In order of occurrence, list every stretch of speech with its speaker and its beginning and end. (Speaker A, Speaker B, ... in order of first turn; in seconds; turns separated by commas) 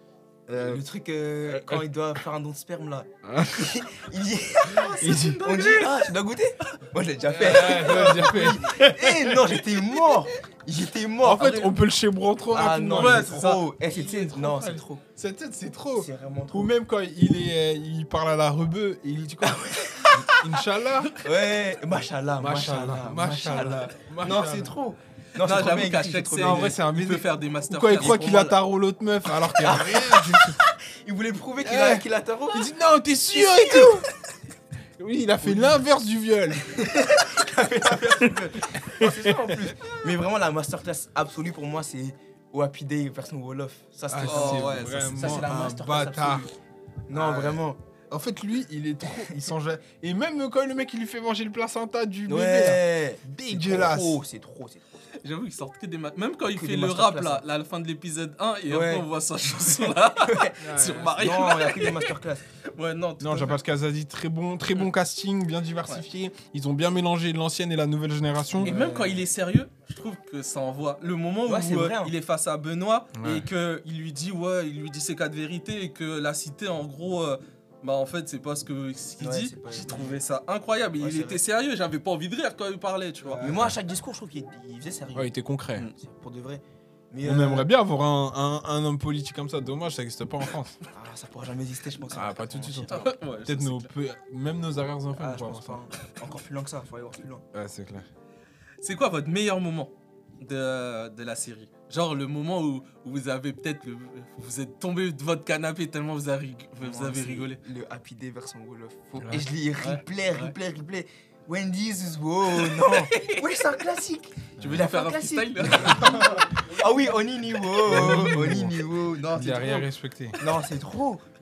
Speaker A: 0.5-0.8, Speaker B: 0.5-11.7, Speaker A: 1.4-1.9, Speaker A: 3.2-3.8, Speaker C: 4.7-6.0, Speaker A: 4.8-5.5, Speaker C: 7.2-8.1, Speaker A: 7.3-9.6, Speaker A: 11.2-21.1, Speaker C: 11.4-11.7, Speaker B: 12.5-15.0, Speaker C: 12.9-13.6, Speaker B: 15.9-16.7, Speaker B: 19.4-20.3, Speaker B: 21.2-26.7, Speaker A: 22.4-24.8, Speaker C: 25.4-28.6, Speaker A: 26.3-30.6, Speaker B: 29.6-32.7, Speaker A: 31.6-34.1, Speaker B: 33.3-34.0, Speaker A: 35.0-36.8, Speaker B: 35.4-35.8, Speaker B: 36.6-46.5, Speaker A: 38.7-39.7, Speaker A: 44.1-46.5, Speaker C: 44.2-45.5, Speaker B: 47.1-47.8, Speaker A: 47.1-54.2, Speaker B: 52.3-54.9, Speaker C: 55.2-63.6, Speaker B: 56.5-57.4, Speaker B: 58.7-59.1, Speaker B: 60.2-60.6, Speaker A: 60.6-61.2, Speaker B: 61.1-62.4, Speaker A: 63.2-68.7, Speaker B: 68.6-69.3, Speaker C: 68.6-83.5, Speaker B: 71.5-72.1, Speaker A: 73.1-73.5, Speaker B: 79.2-80.2, Speaker B: 81.0-81.4, Speaker B: 83.4-85.3, Speaker A: 83.4-83.7, Speaker A: 85.1-85.9, Speaker B: 85.9-87.7, Speaker A: 87.2-90.8, Speaker B: 90.9-93.1, Speaker A: 92.1-95.8, Speaker C: 92.9-93.9, Speaker B: 95.2-97.4, Speaker A: 97.5-98.1, Speaker C: 98.8-107.6, Speaker B: 106.8-121.2, Speaker A: 109.2-109.5, Speaker C: 109.8-110.5, Speaker C: 112.5-113.4, Speaker A: 114.6-114.8, Speaker C: 114.6-116.2, Speaker A: 115.8-116.3, Speaker A: 117.8-120.4